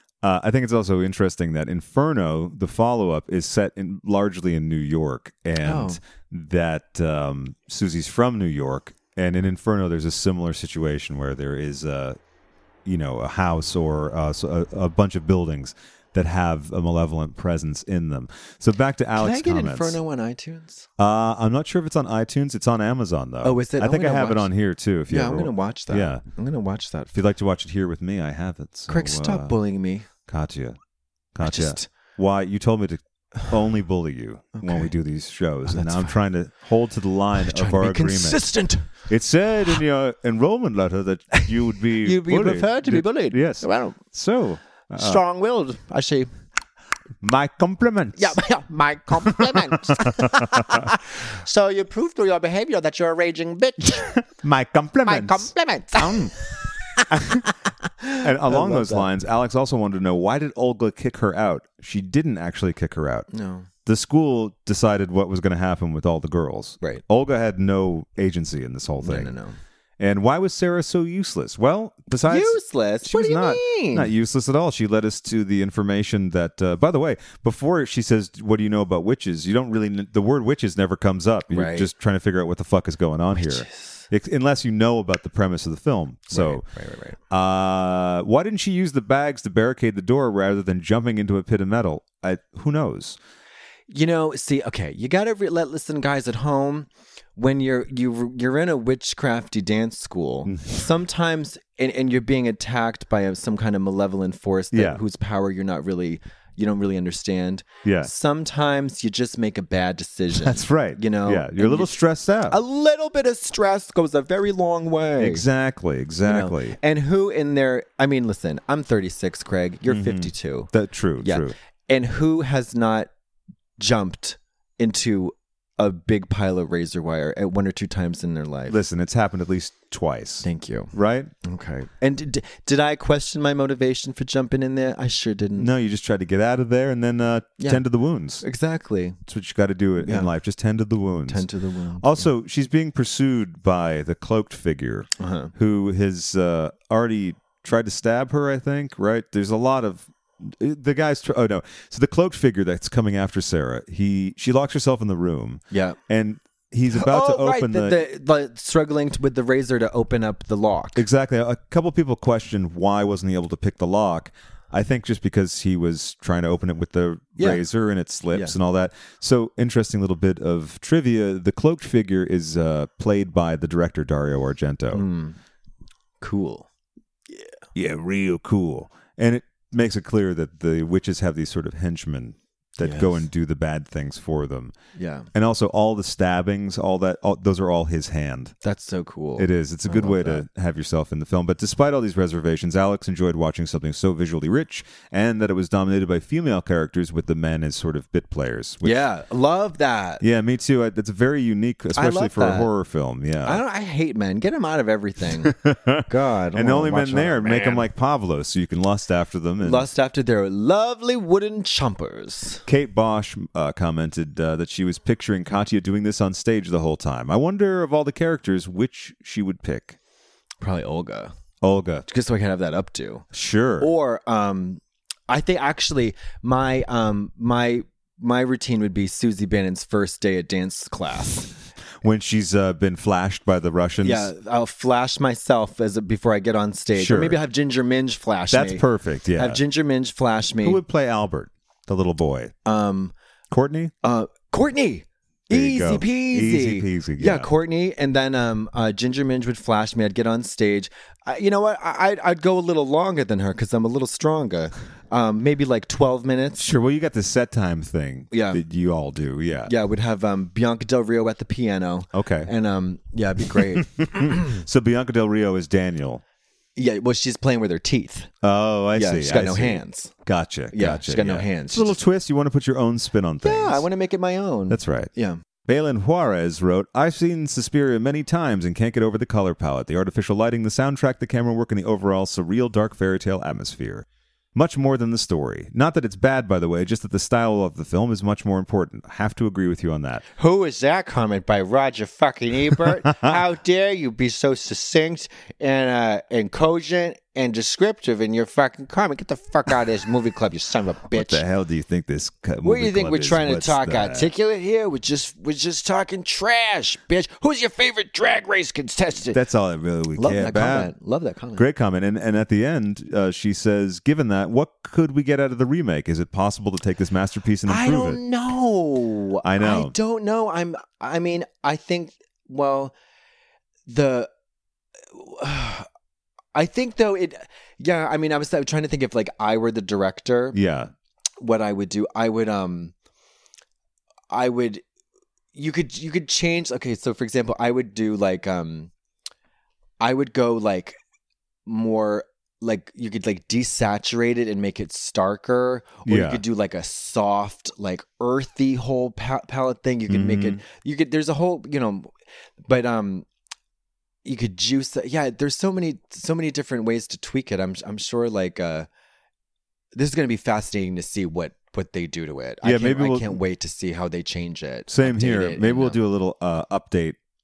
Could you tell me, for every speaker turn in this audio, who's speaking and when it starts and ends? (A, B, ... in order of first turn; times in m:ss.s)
0:00.2-0:12.2 A
0:05.6-0:06.0 B
0:12.8-0:20.0 A
0:19.2-0:20.9 B
0:21.0-0:26.2 A
0:23.4-0:24.5 B
0:25.1-0:27.1 B
0:27.1-0:29.5 A
0:28.9-0:30.1 B
0:30.3-0:30.8 A
0:31.3-0:38.5 A
0:31.4-0:31.9 B
0:34.6-0:34.9 B
0:35.6-0:36.2 B
0:37.4-0:39.0 B
0:39.1-0:45.2 A
0:42.0-0:44.0 B
0:44.9-0:46.3 B
0:47.2-0:48.4 A
0:48.2-0:54.1 B
0:49.5-0:50.8 A
0:54.2-0:56.3 A
0:55.0-0:57.2 B
0:57.1-0:57.4 A
0:58.0-0:59.1 B
0:58.2-1:03.3 A
1:03.3-1:03.7 B
1:03.8-1:09.3 A
1:09.0-1:09.6 B
1:10.0-1:26.6 A
1:12.2-1:14.1 B
1:21.5-1:21.9 B
1:23.3-1:24.0 B
1:26.3-1:27.2 B
1:27.3-1:33.2 A
1:33.9-1:52.0 B
1:40.4-1:40.8 A
1:44.7-1:45.0 A
1:47.8-1:48.1 A
1:50.3-1:52.6 A
1:52.5-1:55.4 B
1:55.2-1:56.8 A
1:56.2-2:00.7 B
1:59.9-2:01.5 A
2:01.2-2:03.1 B
2:03.8-2:08.8 B
2:08.7-2:11.3 A
2:10.4-2:15.7 B
2:15.6-2:18.4 A
2:18.4-2:19.2 B
2:19.3-2:21.5 A
2:20.0-2:20.3 B
2:21.3-2:22.3 B
2:22.0-2:38.0 A
2:25.2-2:25.5 B
2:35.7-2:36.0 B
2:36.9-2:41.0 B
2:41.0-2:55.0 A
2:47.4-2:47.6 B
2:54.9-2:55.4 B
2:56.2-2:56.7 B
2:57.7-3:04.7 A
3:02.8-3:03.2 B
3:04.9-3:05.3 B
3:05.3-3:08.5 A
3:08.6-3:10.4 B
3:09.4-3:19.1 A
3:18.8-3:20.2 B
3:20.2-3:23.6 A
3:21.9-3:22.7 B
3:23.4-3:25.5 B
3:25.5-3:29.9 A
3:26.1-3:27.9 B
3:29.6-3:32.6 B
3:32.7-3:40.0 A
3:40.6-3:41.3 B
3:41.6-3:42.0 A
3:42.0-3:43.2 B
3:43.3-3:43.9 A
3:43.8-3:51.5 B
3:52.0-3:54.3 A
3:54.0-3:58.8 B
3:56.9-3:57.4 A
3:58.5-3:59.6 A
3:59.4-4:00.8 B
4:00.6-4:02.5 A
4:02.6-4:03.1 B
4:03.5-4:03.9 A
4:04.0-4:16.6 B
4:05.5-4:07.5 A
4:16.6-4:19.7 A
4:18.3-4:18.6 B
4:19.7-4:24.4 B
4:22.1-4:22.5 A
4:23.5-4:26.2 A
4:26.8-4:28.3 B
4:28.4-4:33.8 A
4:28.9-4:30.1 B
4:30.7-4:31.9 B
4:33.4-4:35.4 B
4:34.7-4:35.1 A
4:35.6-4:50.2 A
4:50.4-5:01.4 B
5:01.1-5:04.3 A
5:02.6-5:09.4 B
5:09.3-5:10.9 A
5:10.1-5:11.6 B
5:11.6-5:18.2 A
5:17.6-5:22.9 B
5:19.4-5:19.9 A
5:23.9-5:24.3 B
5:25.1-5:25.9 B
5:26.5-5:30.6 B
5:30.5-5:30.9 A
5:31.4-5:32.9 B
5:34.3-5:34.8 B
5:35.5-5:38.9 B
5:40.0-5:41.0 B
5:41.6-5:52.1 B
5:46.0-5:46.4 A
5:50.1-5:50.6 A
5:52.6-5:53.3 B
5:54.2-5:58.9 B
5:59.9-6:06.0 B
6:02.6-6:03.4 A
6:04.9-6:07.2 A